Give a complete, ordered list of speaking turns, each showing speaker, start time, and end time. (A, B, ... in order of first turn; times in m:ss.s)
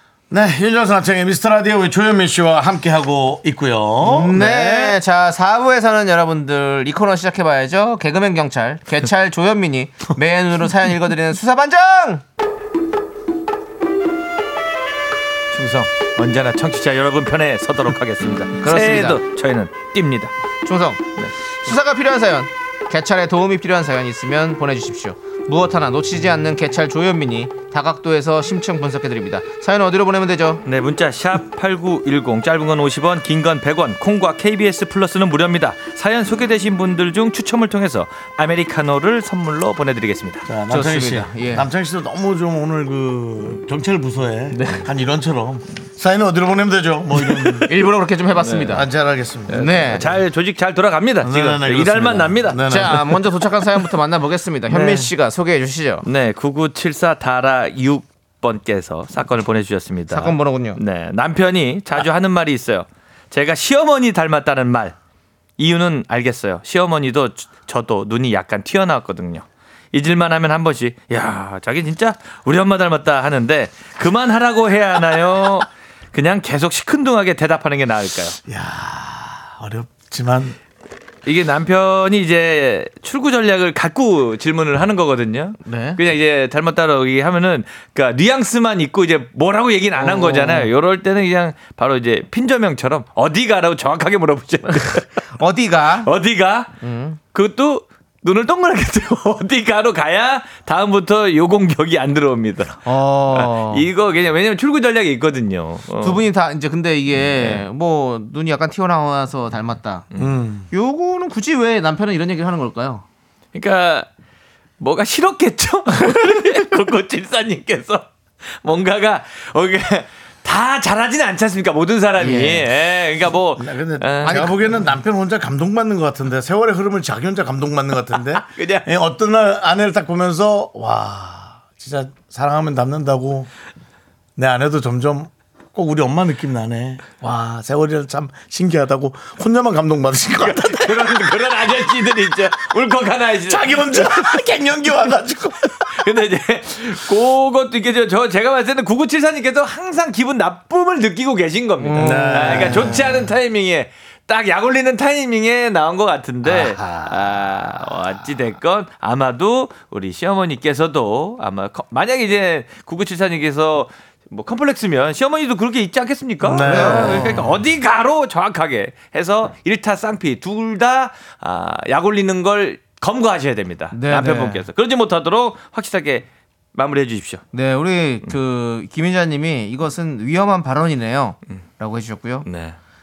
0:00.3-0:05.0 A
0:04.0-0:12.2 B
0:15.5-0:20.3 C
0:18.6-0:19.2 B
0:20.6-0:21.0 B
0:21.6-0:30.6 B
0:30.6-0:40.5 C
0:40.4-0:47.7 A
0:40.7-0:41.6 B
0:44.5-0:44.8 B
0:47.2-0:48.9 B
0:48.4-0:48.8 C
0:48.7-0:50.1 A
0:49.5-0:50.1 B
0:49.5-0:52.7 C
0:51.2-0:53.3 A
0:52.6-0:56.0 B
0:54.7-0:55.1 C
0:56.0-1:05.0 C
1:00.1-1:00.8 B
1:05.6-1:18.4 C
1:18.4-1:20.6 A
1:21.2-1:35.1 C
1:25.6-1:26.0 B
1:30.0-1:30.7 B
1:35.3-1:36.1 B
1:36.0-1:36.7 C
1:36.8-1:37.2 B
1:37.2-1:46.2 C
1:42.8-1:43.9 B
1:46.0-1:50.0 B
1:47.2-1:47.6 C
1:50.2-1:50.7 A
1:50.7-1:53.0 B
1:53.5-1:54.1 C
1:54.8-2:04.5 C
2:02.2-2:02.7 B
2:03.6-2:13.5 A
2:04.2-2:04.6 B
2:08.4-2:08.9 C
2:14.4-2:21.3 A
2:20.4-2:24.3 C
2:23.5-2:26.0 A
2:25.8-2:57.4 C
2:31.8-2:33.0 B
2:32.0-2:33.3 A
2:36.4-2:37.3 A
2:46.4-2:47.4 A
2:46.6-2:47.5 B
2:53.9-2:54.6 B
2:57.5-3:02.5 B
3:02.4-3:02.8 C